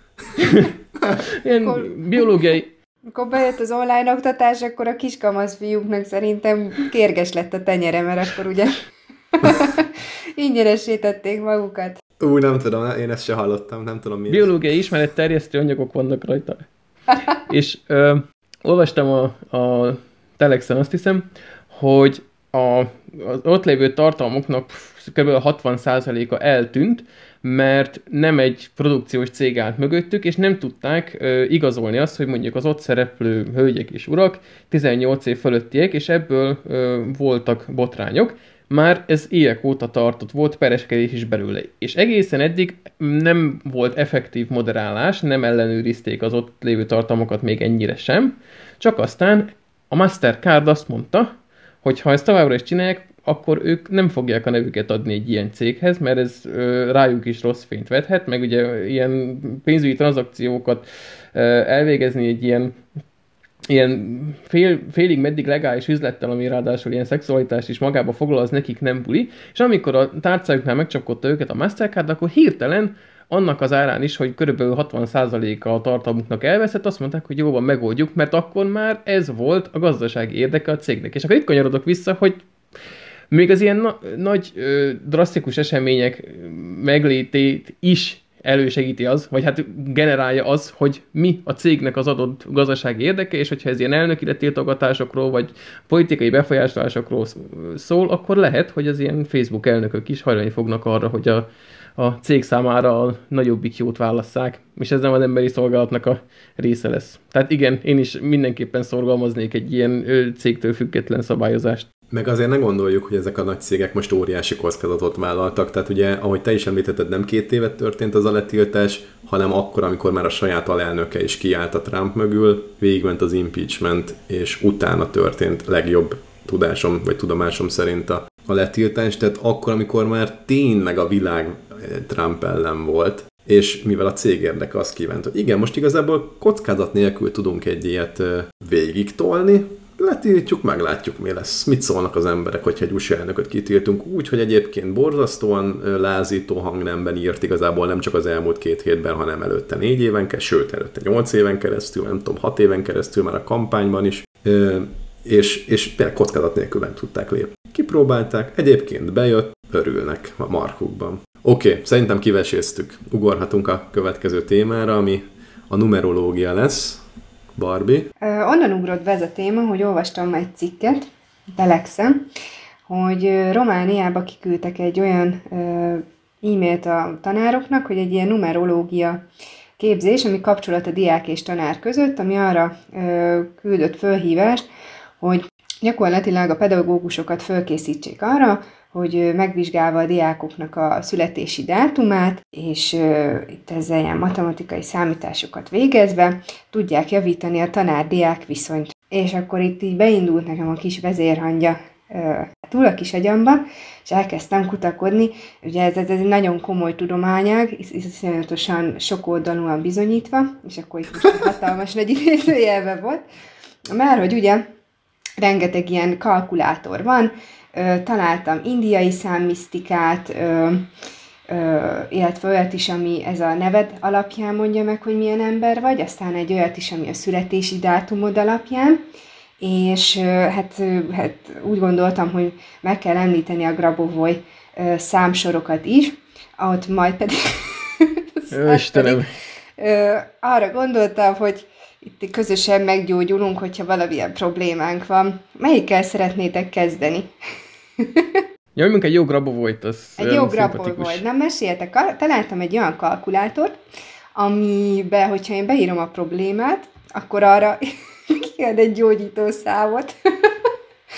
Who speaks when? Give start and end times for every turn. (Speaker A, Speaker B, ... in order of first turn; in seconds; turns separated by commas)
Speaker A: 0.3-1.2, Speaker B: 0.4-0.7, Speaker B: 1.3-2.7, Speaker C: 1.5-2.2, Speaker C: 3.1-12.0, Speaker A: 12.2-14.5, Speaker B: 14.3-16.6, Speaker B: 17.3-51.3, Speaker B: 51.8-62.8, Speaker B: 63.7-82.4, Speaker B: 83.3-101.5, Speaker B: 102.0-111.9, Speaker A: 112.1-167.0, Speaker A: 167.5-168.1, Speaker C: 168.2-172.3, Speaker C: 172.9-179.2, Speaker C: 179.8-184.7, Speaker C: 185.2-213.2, Speaker C: 213.9-214.6, Speaker C: 215.4-220.9, Speaker C: 221.5-229.0, Speaker C: 229.6-239.2, Speaker B: 238.5-239.3, Speaker C: 239.8-247.3, Speaker C: 248.0-248.4, Speaker B: 248.8-251.2, Speaker C: 250.2-253.7, Speaker C: 254.3-260.6